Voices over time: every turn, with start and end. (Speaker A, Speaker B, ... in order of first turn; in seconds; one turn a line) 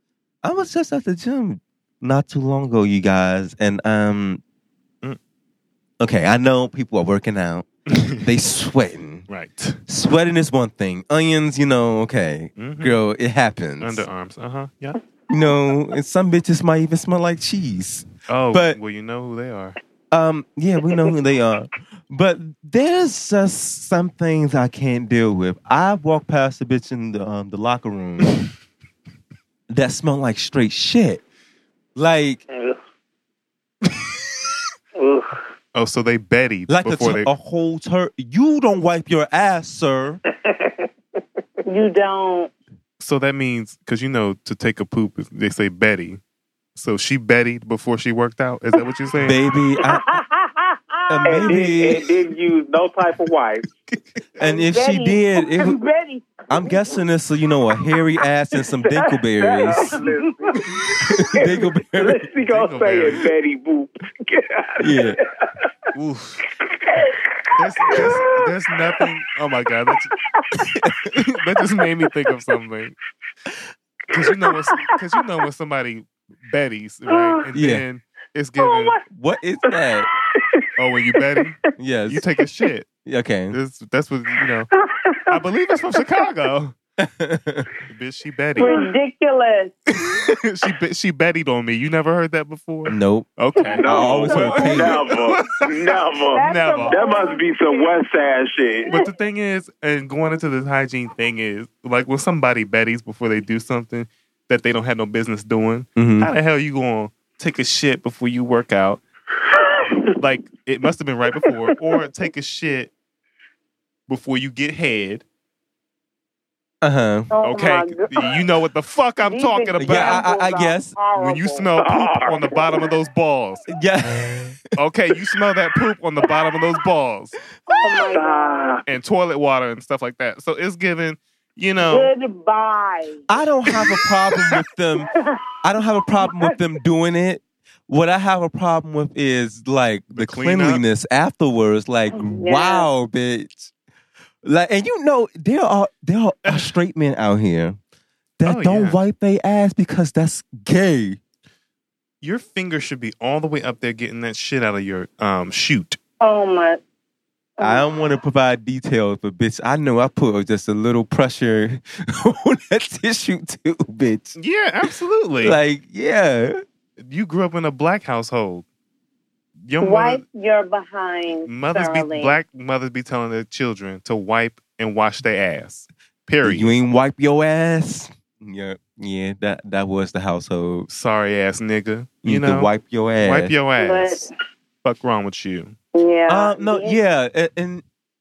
Speaker A: 0.4-4.4
Speaker A: 6.0-7.7
Speaker A: 8.2-9.3
Speaker B: 9.3-9.8
Speaker A: 9.9-14.1
Speaker B: 12.6-13.0
Speaker B: 13.8-15.0
Speaker A: 15.3-18.8
Speaker B: 18.3-19.8
Speaker A: 20.1-28.4
Speaker A: 29.7-31.2
Speaker A: 32.0-32.4
Speaker C: 32.5-32.8
Speaker C: 35.0-35.4
Speaker B: 35.7-37.3
Speaker A: 36.7-40.2
Speaker C: 40.5-40.9
Speaker D: 41.7-42.5
Speaker B: 43.0-46.2
Speaker B: 46.8-49.4
Speaker A: 49.2-50.2
Speaker D: 49.9-51.6
Speaker A: 51.1-52.1
Speaker C: 51.2-53.7
Speaker B: 53.9-54.1
Speaker A: 54.4-55.8
Speaker D: 54.4-56.8
Speaker A: 56.5-60.0
Speaker C: 58.9-60.7
Speaker D: 60.0-60.6
Speaker A: 61.1-62.3
Speaker C: 61.3-65.7
Speaker B: 62.4-63.3
Speaker A: 64.8-65.2
Speaker B: 65.9-66.5
Speaker C: 66.7-67.2
Speaker B: 67.5-70.1
Speaker C: 67.8-69.0
Speaker B: 71.1-73.0
Speaker B: 74.1-79.0
Speaker A: 77.5-77.9
Speaker D: 78.6-79.0
Speaker A: 79.1-80.1
Speaker B: 80.8-82.9
Speaker A: 81.8-82.2
Speaker A: 83.0-83.6
Speaker B: 83.5-84.7
Speaker B: 85.3-86.8
Speaker A: 87.0-87.7
Speaker B: 87.9-88.9
Speaker D: 88.6-89.8
Speaker B: 90.2-97.0
Speaker A: 92.9-93.3
Speaker D: 93.6-95.0
Speaker C: 93.8-98.9
Speaker A: 93.8-95.1
Speaker D: 96.2-98.1
Speaker B: 98.8-109.0
Speaker A: 106.0-106.3
Speaker C: 109.6-109.9
Speaker B: 110.2-112.9
Speaker B: 114.1-115.2
Speaker A: 116.8-117.3
Speaker D: 117.3-118.4
Speaker B: 117.4-120.3
Speaker D: 119.2-121.7
Speaker A: 119.8-121.0
Speaker B: 121.2-123.7
Speaker C: 121.8-122.7
Speaker A: 123.7-124.6
Speaker B: 124.8-127.4
Speaker D: 127.7-128.8
Speaker C: 127.8-128.8
Speaker B: 128.9-132.1
Speaker D: 131.9-133.3
Speaker A: 133.3-135.1
Speaker D: 135.0-135.4
Speaker A: 135.6-143.7
Speaker D: 136.2-136.5
Speaker B: 140.1-140.8
Speaker D: 142.1-142.9
Speaker A: 144.4-147.8
Speaker B: 146.4-146.8
Speaker A: 148.4-151.2
Speaker B: 148.4-149.0
Speaker B: 152.2-156.0
Speaker D: 156.2-156.8
Speaker D: 157.6-157.9
Speaker A: 157.6-164.4
Speaker B: 164.4-165.6
Speaker A: 165.4-166.6
Speaker B: 167.0-168.7
Speaker B: 169.7-170.2
Speaker D: 169.8-172.4
Speaker B: 171.4-176.8
Speaker A: 176.4-180.9
Speaker B: 180.9-184.3
Speaker A: 182.2-183.6
Speaker D: 183.8-184.3
Speaker B: 184.8-185.8
Speaker D: 185.9-187.0
Speaker A: 186.3-187.8